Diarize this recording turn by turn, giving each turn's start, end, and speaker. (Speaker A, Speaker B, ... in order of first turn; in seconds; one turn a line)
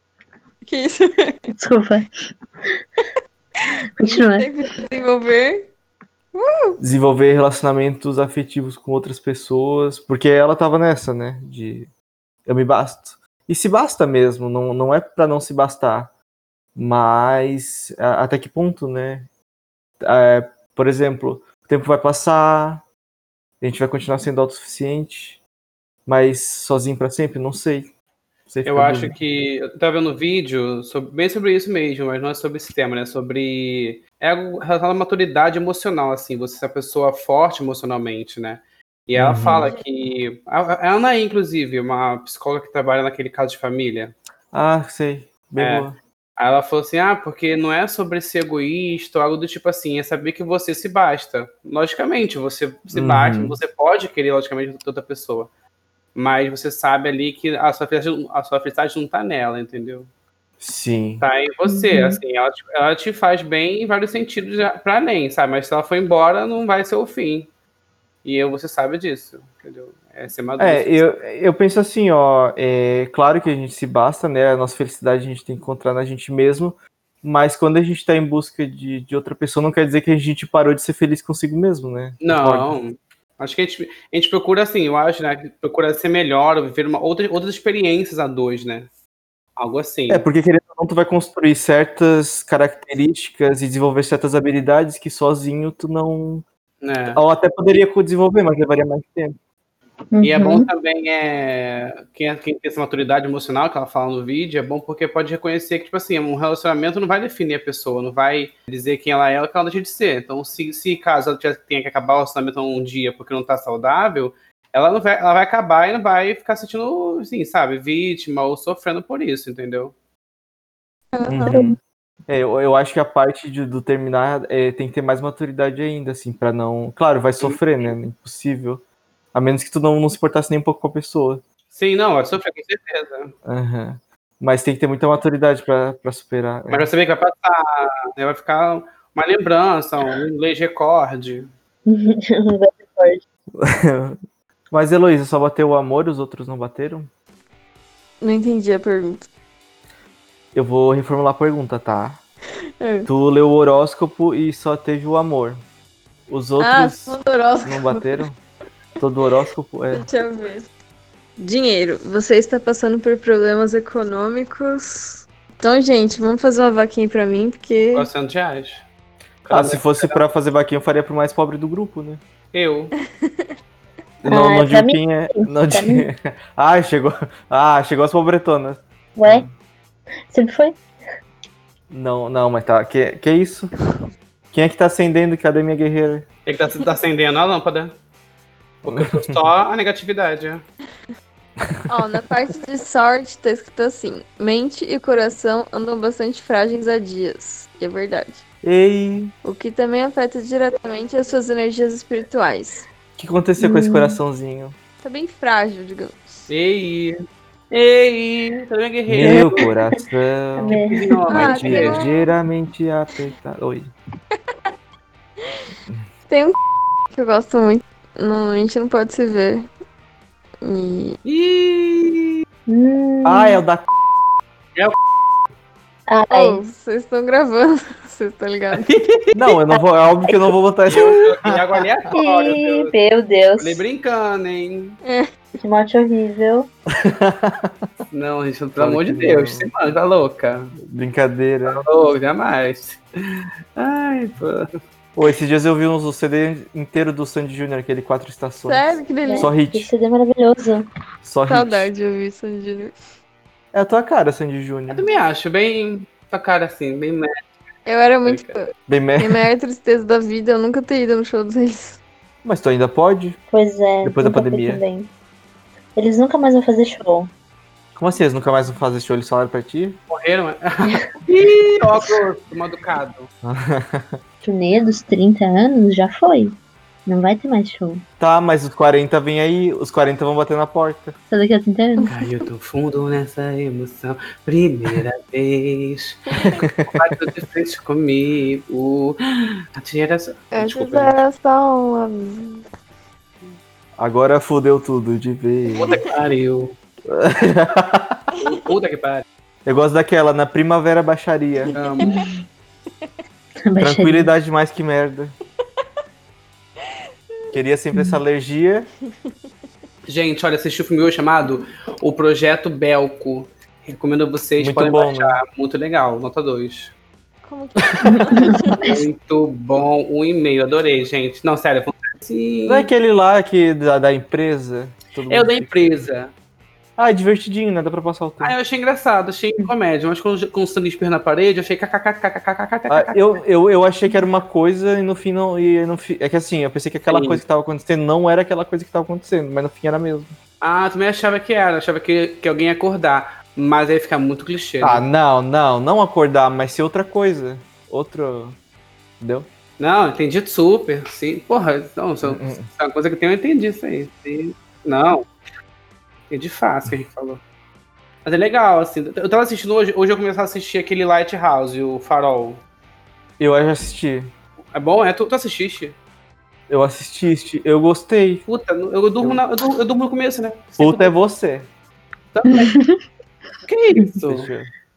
Speaker A: 0.7-1.4
Speaker B: 1.6-2.1
Speaker B: 4.0-4.5
Speaker A: 4.0-5.7
Speaker A: 6.3-6.8
Speaker C: 6.8-11.9
Speaker C: 12.5-16.1
Speaker C: 16.8-19.3
Speaker C: 20.0-22.9
Speaker C: 23.6-25.4
Speaker C: 26.1-27.9
Speaker C: 28.5-29.2
Speaker D: 28.6-44.1
Speaker C: 39.1-39.7
Speaker C: 44.5-46.0
Speaker D: 45.6-55.5
Speaker C: 52.9-53.6
Speaker D: 56.1-60.1
Speaker C: 60.6-61.3
Speaker D: 61.2-67.5
Speaker B: 61.7-62.2
Speaker D: 68.2-71.1
Speaker C: 70.6-82.8
Speaker D: 82.2-88.9
Speaker D: 89.6-90.2
Speaker C: 90.1-96.5
Speaker D: 96.8-97.2
Speaker C: 97.1-99.4
Speaker B: 100.1-100.7
Speaker D: 100.2-119.9
Speaker A: 121.1-121.6
Speaker C: 121.3-131.4
Speaker D: 127.4-127.9
Speaker D: 131.7-133.3
Speaker C: 133.5-136.9
Speaker D: 136.7-141.5
Speaker B: 141.9-143.2
Speaker C: 143.6-144.2
Speaker C: 144.7-147.1
Speaker A: 148.2-149.3
Speaker C: 150.5-152.2
Speaker A: 152.8-153.1
Speaker C: 153.1-155.6
Speaker C: 156.3-158.4
Speaker A: 156.6-158.2
Speaker C: 159.0-160.1
Speaker A: 159.9-160.7
Speaker A: 161.4-168.1
Speaker D: 167.9-168.8
Speaker D: 169.4-170.2
Speaker C: 169.5-172.2
Speaker D: 172.5-172.9
Speaker C: 174.2-179.5
Speaker B: 174.3-176.1
Speaker B: 179.2-179.5
Speaker B: 180.3-180.8
Speaker C: 181.9-183.7
Speaker C: 184.5-186.3
Speaker D: 186.5-188.0
Speaker D: 188.8-190.6
Speaker A: 191.9-198.4
Speaker C: 198.6-199.3
Speaker A: 199.4-202.8
Speaker C: 203.2-204.8
Speaker B: 203.6-204.2
Speaker A: 205.0-206.5
Speaker D: 206.5-207.1
Speaker D: 207.7-209.7
Speaker C: 209.1-213.9
Speaker B: 209.2-209.9
Speaker B: 210.6-211.1
Speaker D: 210.9-212.0
Speaker A: 211.3-212.3
Speaker A: 216.3-216.6
Speaker A: 217.1-219.7
Speaker A: 220.6-221.2
Speaker D: 221.3-222.4
Speaker B: 222.7-223.6
Speaker C: 223.2-223.9
Speaker B: 226.1-226.6
Speaker A: 226.3-228.9
Speaker D: 228.7-229.3
Speaker C: 229.3-231.6
Speaker D: 230.9-232.9
Speaker B: 232.1-233.8
Speaker D: 233.6-235.0
Speaker B: 235.6-236.7
Speaker C: 237.0-237.7
Speaker D: 238.1-240.7
Speaker C: 238.8-239.7
Speaker C: 240.8-241.8
Speaker D: 241.7-243.0
Speaker D: 243.8-244.7
Speaker C: 245.2-249.9
Speaker A: 248.7-249.5
Speaker B: 249.2-250.8
Speaker C: 251.2-251.9
Speaker A: 251.5-252.9
Speaker C: 253.7-255.1
Speaker D: 254.9-257.3
Speaker A: 257.9-262.0
Speaker D: 258.2-258.5
Speaker C: 258.9-259.5
Speaker C: 262.4-263.4
Speaker B: 263.5-265.1
Speaker C: 264.0-264.8
Speaker B: 266.0-267.3
Speaker C: 268.0-270.0
Speaker D: 270.1-273.3
Speaker C: 273.4-274.2
Speaker B: 274.4-278.0
Speaker C: 278.2-281.1
Speaker B: 281.3-282.1
Speaker D: 282.1-286.4
Speaker C: 286.4-286.9
Speaker D: 286.9-289.2
Speaker D: 289.8-290.8
Speaker A: 290.5-292.6
Speaker C: 290.6-291.2
Speaker C: 294.0-296.0
Speaker D: 295.8-296.7
Speaker C: 297.1-298.2
Speaker D: 298.5-299.2
Speaker C: 299.7-301.8
Speaker A: 301.7-302.2
Speaker D: 301.8-302.2
Speaker B: 303.6-304.3
Speaker C: 303.8-305.4
Speaker C: 307.5-308.9
Speaker D: 310.1-316.9
Speaker C: 314.6-315.4
Speaker A: 317.4-319.0
Speaker D: 318.9-322.9
Speaker C: 322.7-326.0
Speaker D: 325.3-326.3
Speaker C: 327.0-328.6
Speaker D: 328.4-333.3
Speaker C: 332.9-340.4
Speaker D: 337.1-337.4
Speaker D: 340.6-345.1
Speaker C: 344.8-348.6
Speaker C: 349.2-349.5
Speaker D: 349.8-355.2
Speaker C: 352.2-352.7
Speaker D: 356.3-357.4
Speaker D: 358.2-362.6
Speaker C: 363.4-364.3
Speaker D: 364.7-366.0
Speaker C: 366.7-368.4
Speaker D: 368.5-371.1
Speaker C: 370.8-371.7
Speaker D: 372.3-372.7
Speaker B: 372.5-373.0
Speaker D: 373.7-374.5
Speaker C: 374.2-374.7